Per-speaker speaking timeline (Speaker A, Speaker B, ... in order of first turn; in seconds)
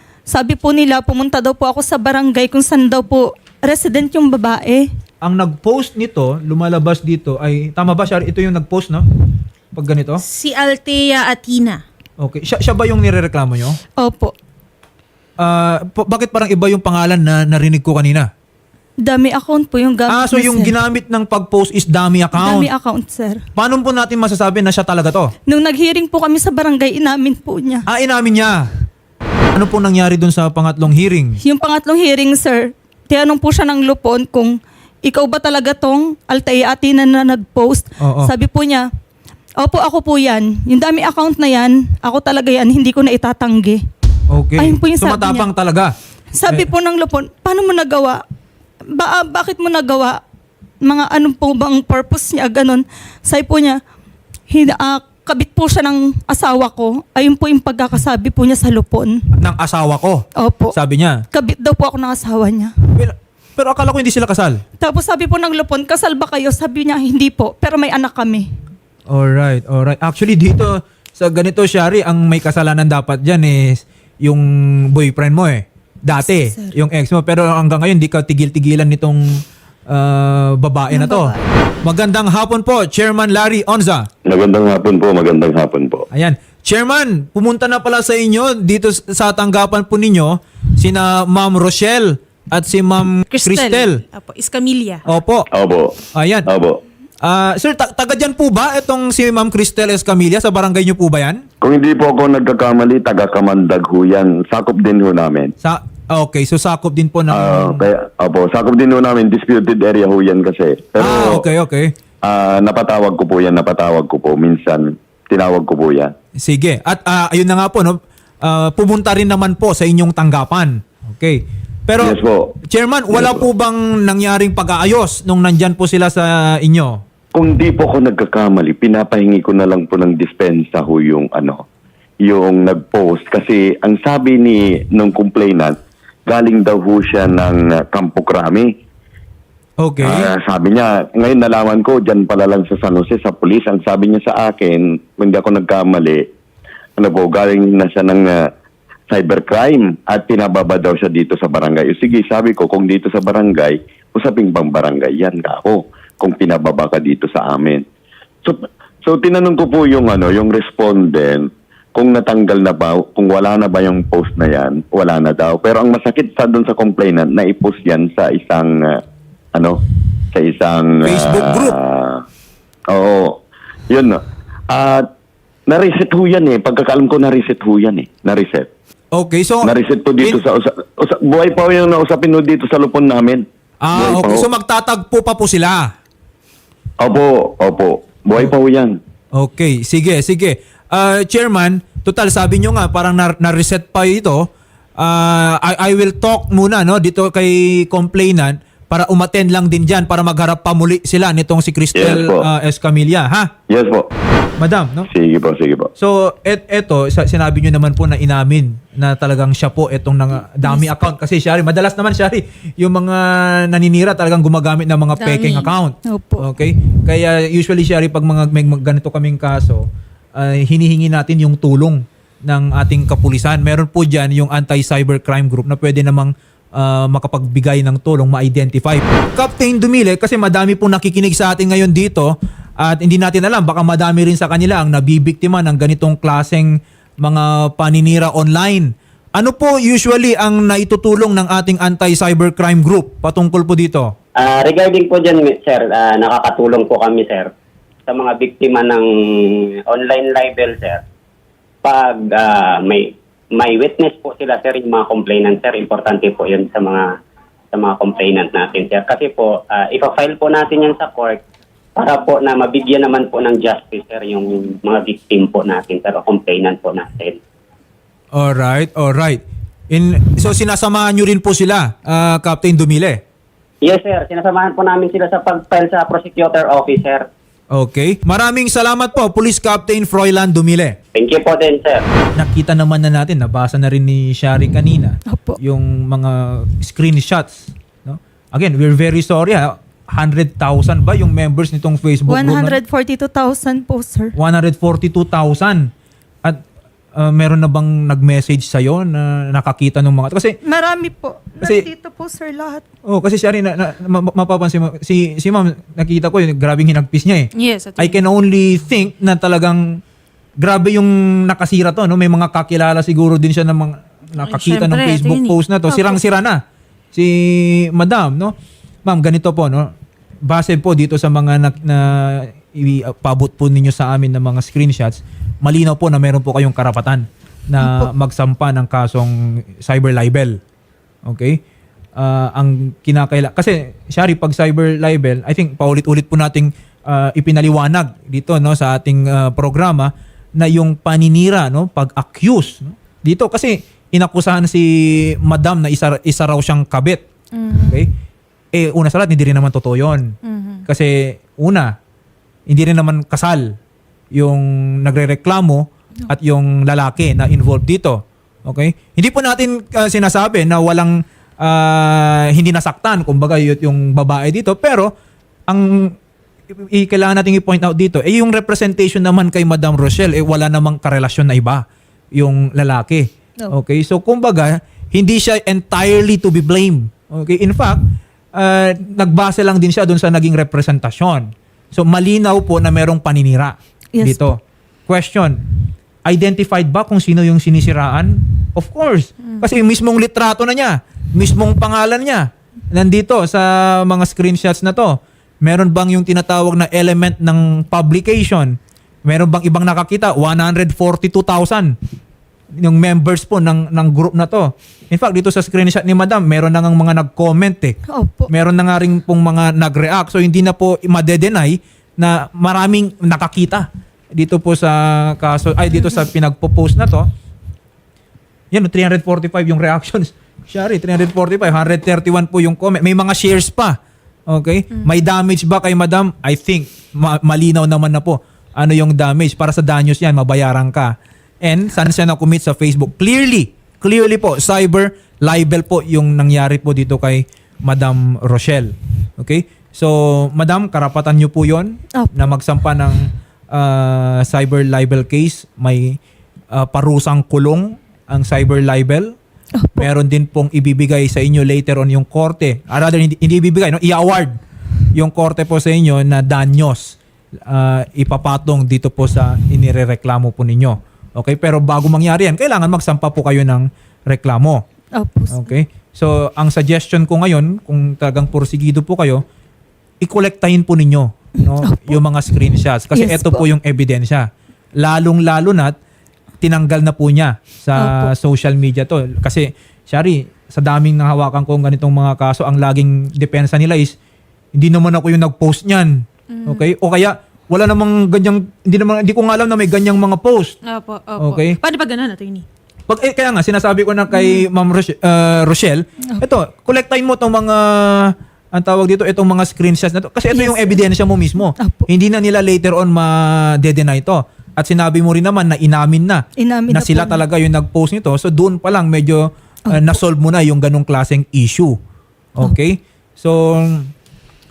Speaker A: 0.3-4.9, 14.0-14.3, 19.0-20.7, 22.4-23.4, 25.5-27.9, 31.4-38.9, 39.6-43.8, 44.6-45.5, 46.3-48.2, 49.0-50.2, 50.9-53.8, 54.5-59.2, 60.4-60.7, 61.3-62.7, 64.8-68.5, 80.9-81.4, 216.0-216.5, 285.3-285.6, 292.3-294.3, 300.6-302.8, 327.8-328.1, 384.1-384.5, 408.1-408.5, 442.1-442.5, 449.8-450.1, 465.1-465.7, 471.8-472.2, 473.1-473.7, 478.0-478.3, 500.5-501.0, 501.8-502.1, 506.6-507.4, 509.9-510.2
Speaker B: 5.2-9.1, 9.7-10.2, 12.2-13.8, 15.4-18.3, 20.1-22.7, 23.6-25.3, 27.9-28.7, 29.6-31.4, 38.0-38.3, 44.3-45.9, 59.4-61.2, 63.0-64.6, 69.1-79.4, 79.9-84.1, 86.1-94.0, 95.1-95.5, 96.1-96.5, 97.2-101.5, 105.6-107.9, 111.0-111.9, 116.4-127.0, 139.8-140.3, 171.0-171.8, 179.1-180.4, 183.8-185.9, 189.3-194.5, 195.0-203.5, 204.6-205.1, 206.0-219.9, 220.4-236.7, 237.2-244.1, 268.3-273.2, 277.7-281.0, 282.4-292.8, 294.4-295.9, 297.2-300.6, 301.6-301.9, 303.1-309.8, 310.6-316.6, 317.1-318.6, 319.1-319.9, 320.5-330.6, 331.3-331.6, 332.2-347.3, 347.8-348.1, 348.7-350.4, 350.9-351.9, 352.7-353.8, 354.3-365.1, 365.7-366.1, 366.8-371.8, 372.4-378.0, 378.6-385.6, 386.3-401.9, 402.8-408.0, 408.5-417.3, 418.7-446.2, 446.7-449.4, 450.0-454.6, 455.1-464.8, 465.5-469.4, 470.2-474.5, 475.0-475.9, 476.6-484.1, 484.8-490.8, 491.4-491.8, 493.1-511.9, 512.6-514.1
Speaker C: 10.2-11.8, 93.3-95.0, 215.2-215.7, 307.6-308.2, 314.4-316.2, 347.6-348.0, 350.5-350.8, 486.5-486.8, 490.9-492.6
Speaker D: 84.3-86.1, 95.5-96.8, 101.6-105.5, 107.3-111.5, 112.2-116.1, 122.0-122.6, 123.1-123.5, 127.3-131.6, 132.2-138.7, 140.0-146.2, 147.0-148.5, 149.1-157.8, 158.4-169.0, 169.5-169.8, 170.3-172.2, 172.9-175.1, 175.7-178.7, 179.6-184.5, 187.0-189.0, 201.9-202.5, 203.7-204.1, 205.1-205.9
Speaker E: 244.4-247.5, 248.1-249.1, 249.9-251.0, 251.8-257.1, 257.7-261.4, 262.0-267.4, 273.8-277.3, 281.1-282.1